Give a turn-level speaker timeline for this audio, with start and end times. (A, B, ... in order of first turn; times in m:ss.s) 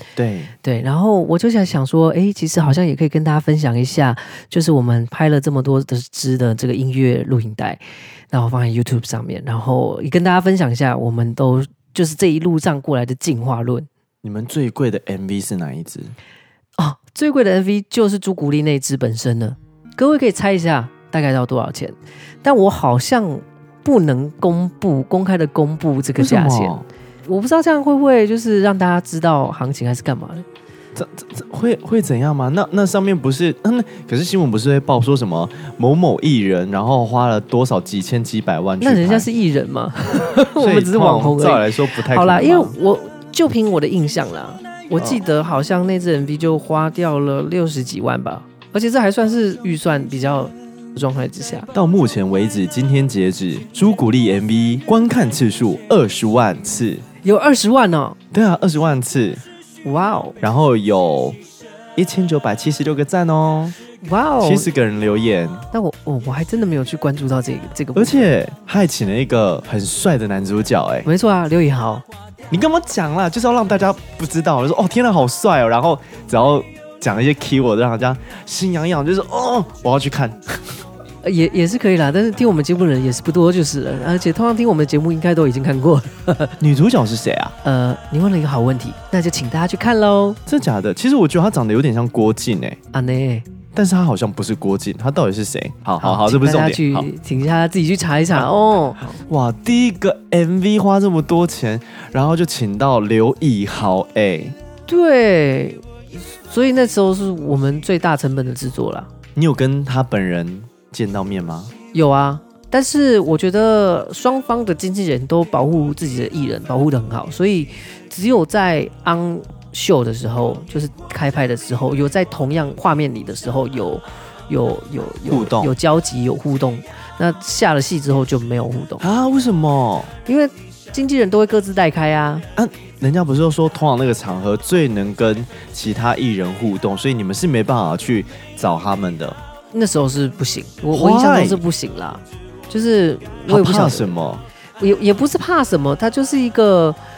0:00.2-0:00.5 A
0:00.6-0:07.8 B
0:08.3-0:13.9 B
0:14.2-0:16.1 A
0:16.8-0:26.7 B
0:26.2-0:26.9 A
0:27.2-0:30.4 B
0:30.9-0:39.3 A
0:38.8-0:51.7 B
0:40.6-0:42.7 A
0:51.7-0:57.0 A
0:57.2-0:58.2 B
0:58.3-0:59.4 A
0:59.8-1:00.4 B
1:00.4-1:01.4 A
1:02.0-1:03.7 A
1:04.0-1:04.7 B
1:04.4-1:05.7 A
1:05.7-1:08.3 B
1:07.9-1:11.0 A
1:11.0-1:12.0 B
1:12.5-1:20.8 A
1:21.2-1:26.6 B
1:26.6-1:27.5 A
1:27.6-1:30.4 B
1:30.4-1:32.8 A
1:32.9-1:33.4 B
1:33.7-1:37.1 A
1:36.0-1:39.2 B
1:39.2-1:44.5 A
1:44.9-1:49.1 B
1:49.3-1:51.7 A
1:51.9-2:09.0 B
2:05.3-2:05.7 A
2:09.0-2:10.1 A
2:10.2-2:12.4 B
2:12.6-2:19.4 A
2:19.7-2:24.2 B
2:20.9-2:21.6 A
2:23.5-2:24.4 A
2:24.8-2:27.0 B